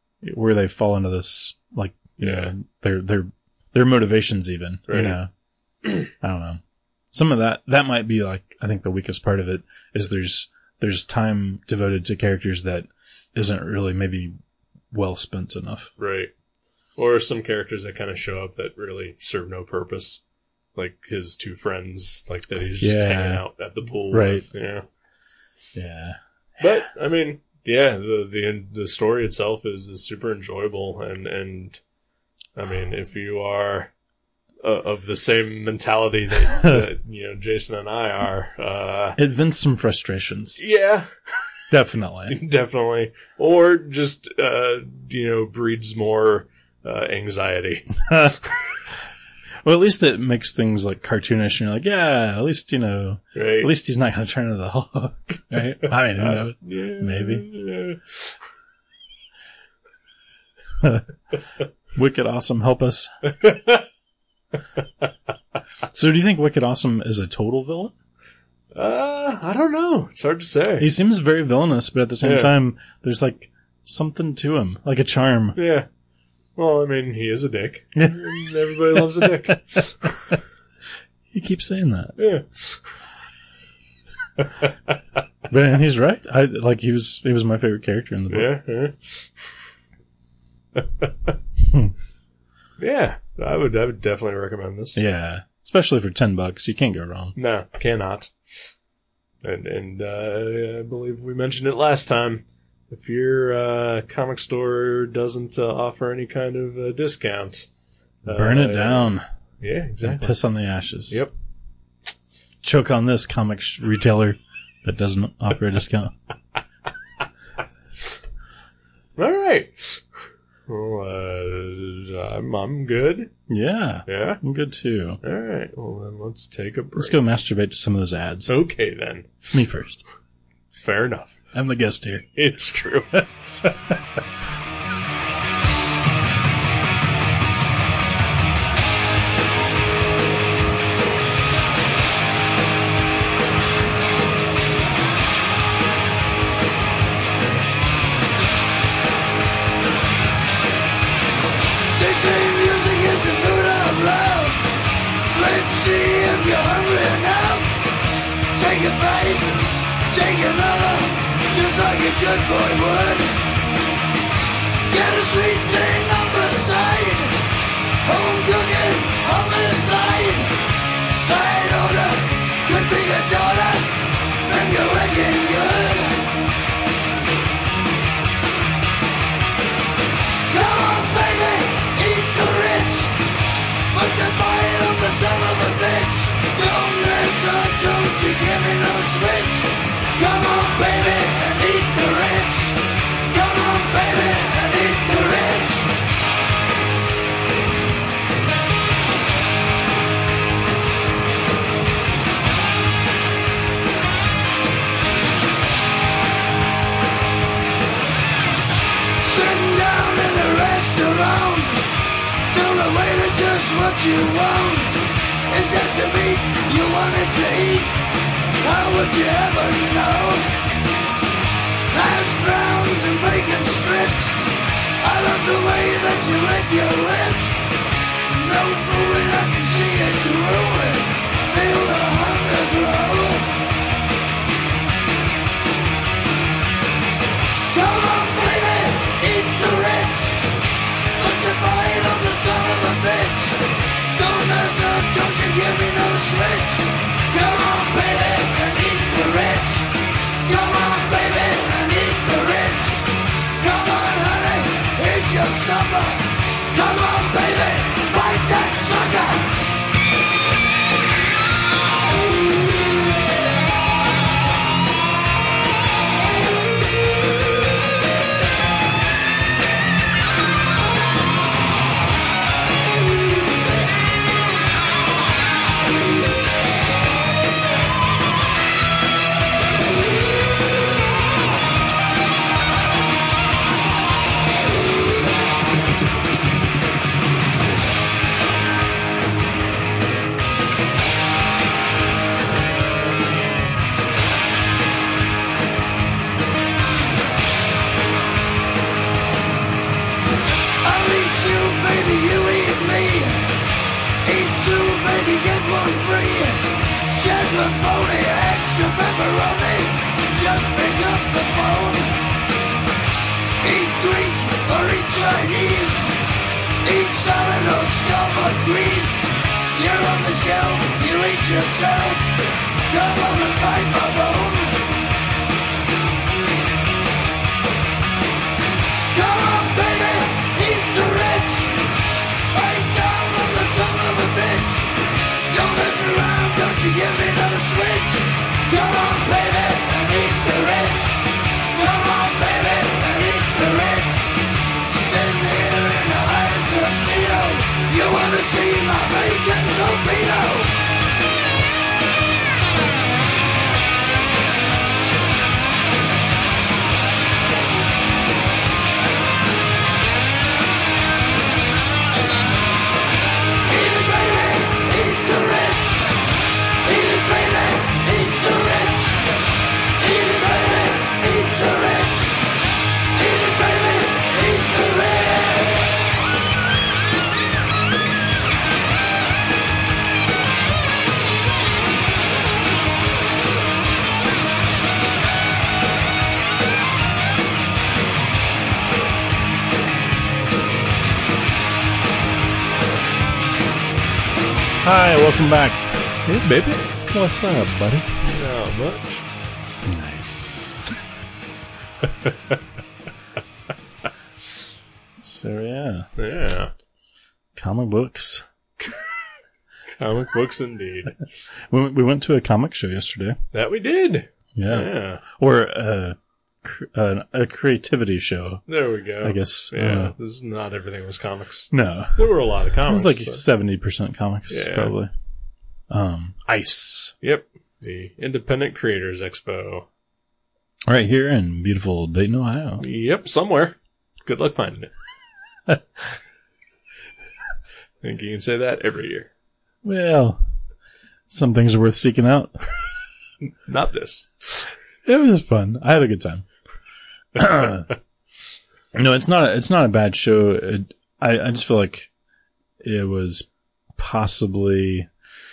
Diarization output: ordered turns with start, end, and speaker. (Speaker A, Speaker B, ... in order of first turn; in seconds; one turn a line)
Speaker A: 0.2-5.3
Speaker B: 2.2-2.5
Speaker B: 4.9-5.2
Speaker A: 6.2-6.6
Speaker A: 7.1-14.3
Speaker A: 14.9-15.9
Speaker B: 16.0-16.3
Speaker B: 17.0-20.2
Speaker B: 20.8-24.9
Speaker A: 22.8-23.4
Speaker A: 24.1-24.5
Speaker A: 25.8-26.2
Speaker B: 26.6-31.8
Speaker B: 32.6-33.9
Speaker B: 34.6-39.2
Speaker A: 36.5-36.8
Speaker A: 39.2-40.6
Speaker B: 40.6-41.1
Speaker A: 41.7-42.4
Speaker B: 42.3-48.6
Speaker A: 48.1-48.4
Speaker A: 49.6-57.5
Speaker B: 53.4-53.7
Speaker B: 55.6-58.3
Speaker A: 60.8-61.1
Speaker A: 61.9-63.1
Speaker B: 63.3-63.9
Speaker A: 65.9-67.9
Speaker B: 68.7-70.9
Speaker A: 70.8-75.6
Speaker B: 72.2-72.5
Speaker B: 75.5-75.9
Speaker B: 76.6-80.3
Speaker A: 78.0-80.3
Speaker A: 81.3-82.2
Speaker B: 82.2-82.9
Speaker B: 84.4-84.7
Speaker A: 85.5-88.5
Speaker B: 88.3-89.3
Speaker B: 90.8-91.3
Speaker B: 92.8-95.0
Speaker A: 95.0-97.4
Speaker B: 97.4-98.3
Speaker B: 99.4-107.7
Speaker B: 108.2-110.4
Speaker A: 108.3-109.2
Speaker A: 110.0-111.2
Speaker A: 112.6-116.1
Speaker B: 119.2-120.0
Speaker B: 120.7-123.3
Speaker A: 123.5-125.2
Speaker B: 124.1-124.4
Speaker B: 125.2-127.2
Speaker A: 127.0-128.5
Speaker B: 128.5-129.5
Speaker A: 129.5-130.0
Speaker B: 130.7-131.4
Speaker A: 131.5-132.3
Speaker B: 132.3-133.2
Speaker C: 152.0-154.6
Speaker C: 155.3-157.8
Speaker C: 158.5-163.4
Speaker C: 164.9-167.4
Speaker C: 168.0-176.3
Speaker C: 180.5-183.2
Speaker C: 183.9-195.9
Speaker C: 209.2-211.8
Speaker C: 212.5-218.0
Speaker C: 218.6-220.5
Speaker C: 221.9-224.4
Speaker C: 225.0-227.6
Speaker C: 228.3-233.6
Speaker C: 237.7-240.4
Speaker C: 241.2-249.9
Speaker C: 250.4-259.6
Speaker C: 300.8-303.5
Speaker C: 304.2-312.2
Speaker C: 313.6-316.2
Speaker C: 316.8-322.3
Speaker C: 322.9-324.9
Speaker C: 329.1-331.8
Speaker C: 332.5-334.9
Speaker C: 335.5-350.8
Speaker C: 363.7-366.1
Speaker C: 366.8-369.2
Speaker C: 370.0-372.4
Speaker C: 373.1-375.9
Speaker A: 394.8-398.1
Speaker B: 398.2-399.2
Speaker A: 399.8-400.8
Speaker B: 402.2-402.6
Speaker A: 405.2-406.1
Speaker B: 406.2-406.7
Speaker A: 407.6-408.4
Speaker B: 410.0-411.2
Speaker A: 411.6-413.4
Speaker B: 413.5-415.2
Speaker A: 414.6-418.6
Speaker B: 418.7-423.4
Speaker A: 419.2-420.1
Speaker A: 421.7-425.1
Speaker B: 424.5-424.9
Speaker A: 425.9-427.1
Speaker B: 427.2-429.9
Speaker A: 430.9-432.8
Speaker B: 432.8-434.9
Speaker B: 438.0-439.3
Speaker A: 439.8-440.4
Speaker A: 441.3-442.6
Speaker B: 443.7-444.7
Speaker A: 445.1-446.4
Speaker A: 447.4-447.9
Speaker A: 448.9-452.1
Speaker A: 452.8-455.1